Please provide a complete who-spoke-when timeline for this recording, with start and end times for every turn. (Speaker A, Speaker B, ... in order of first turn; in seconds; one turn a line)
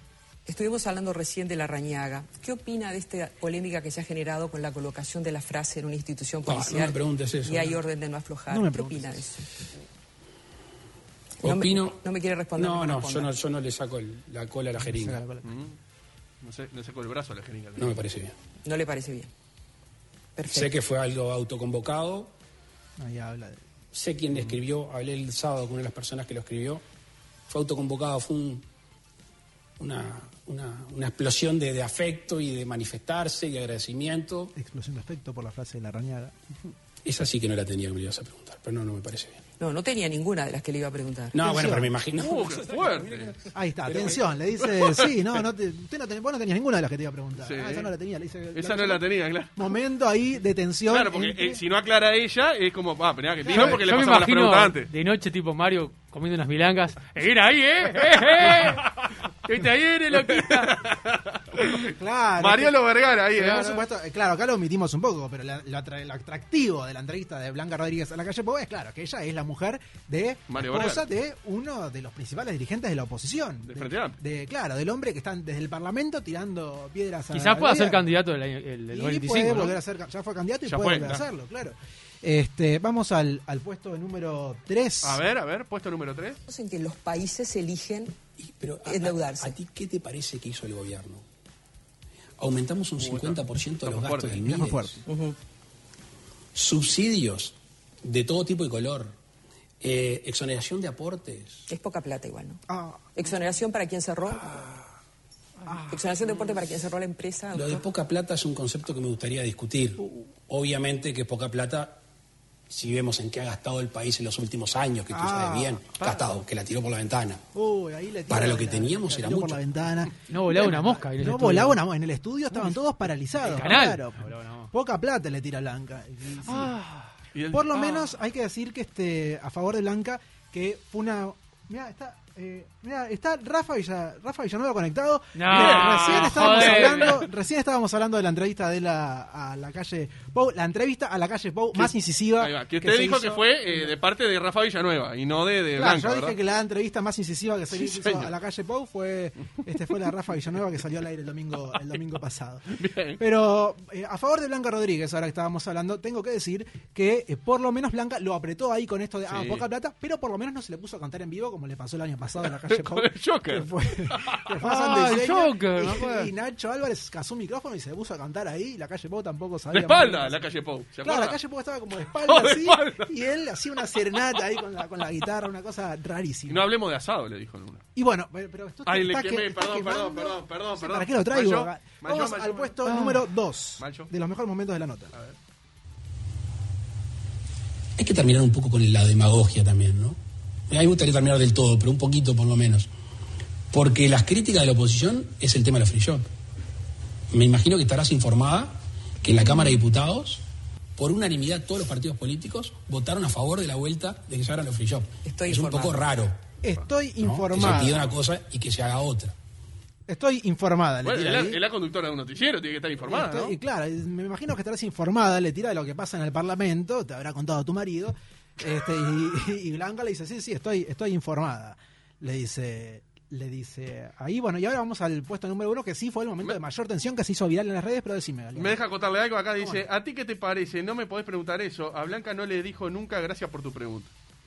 Speaker A: 0.5-9.4
Speaker B: 6.4-7.8
Speaker C: 8.5-9.2
Speaker A: 11.4-13.3
Speaker B: 11.4-15.2
Speaker C: 14.8-15.5
Speaker D: 15.4-15.8
Speaker D: 16.4-18.0
Speaker B: 17.8-18.3
Speaker A: 18.6-19.3
Speaker A: 20.4-20.8
Speaker B: 20.5-22.4
Speaker C: 23.0-23.6
Speaker B: 23.9-26.8
Speaker B: 27.5-28.7
Speaker B: 29.8-34.5
Speaker C: 34.6-36.3
Speaker B: 37.0-39.4
Speaker A: 39.6-41.4
Speaker B: 41.3-44.2
Speaker C: 41.4-41.9
Speaker D: 42.2-43.4
Speaker C: 43.5-49.0
Speaker D: 44.6-45.1
Speaker D: 47.4-47.9
Speaker D: 48.5-49.6
Speaker C: 49.6-51.6
Speaker D: 50.9-54.9
Speaker C: 53.4-53.8
Speaker E: 53.5-58.9
Speaker D: 58.5-59.1
Speaker E: 59.5-60.8
Speaker D: 60.1-63.8
Speaker C: 61.9-62.8
Speaker C: 63.4-78.1
Speaker D: 70.5-71.0
Speaker D: 73.6-74.2
Speaker E: 77.3-79.8
Speaker C: 78.9-85.2
Speaker D: 80.7-81.2
Speaker D: 85.0-86.4
Speaker A: 86.5-88.2
Speaker B: 88.4-91.2
Speaker A: 88.8-89.5
Speaker B: 92.4-95.0
Speaker D: 93.0-94.4
Speaker C: 94.4-95.0
Speaker B: 96.5-99.2
Speaker B: 99.8-101.7
Speaker A: 101.7-102.6
Speaker C: 102.7-103.1
Speaker A: 103.1-104.7
Speaker C: 105.7-106.1
Speaker A: 105.9-107.8
Speaker B: 107.5-112.0
Speaker B: 112.7-117.5
Speaker C: 115.1-115.8
Speaker C: 117.5-126.7
Speaker B: 118.3-119.6
Speaker E: 120.3-121.8
Speaker E: 123.4-124.7
Speaker E: 126.5-127.1
Speaker D: 127.3-128.0
Speaker C: 127.5-143.9
Speaker E: 135.3-137.2
Speaker D: 135.5-137.3
Speaker D: 141.7-146.4
Speaker C: 145.8-170.3
Speaker D: 147.7-148.3
Speaker D: 152.7-153.2
Speaker D: 159.3-159.6
Speaker D: 162.4-164.4
Speaker E: 164.6-166.3
Speaker D: 169.7-171.4
Speaker C: 171.0-176.7
Speaker D: 172.2-173.1
Speaker D: 176.5-177.9
Speaker C: 178.0-185.1
Speaker D: 178.9-183.1
Speaker E: 182.9-183.2
Speaker D: 183.8-184.1
Speaker B: 188.0-192.9
Speaker B: 193.7-196.3
Speaker B: 197.3-200.4
Speaker B: 201.0-206.4
Speaker A: 205.2-206.0
Speaker C: 206.6-208.0
Speaker B: 207.2-209.4
Speaker C: 210.1-211.6
Speaker D: 211.0-213.5
Speaker C: 213.1-228.8
Speaker D: 228.6-234.1
Speaker C: 229.6-229.8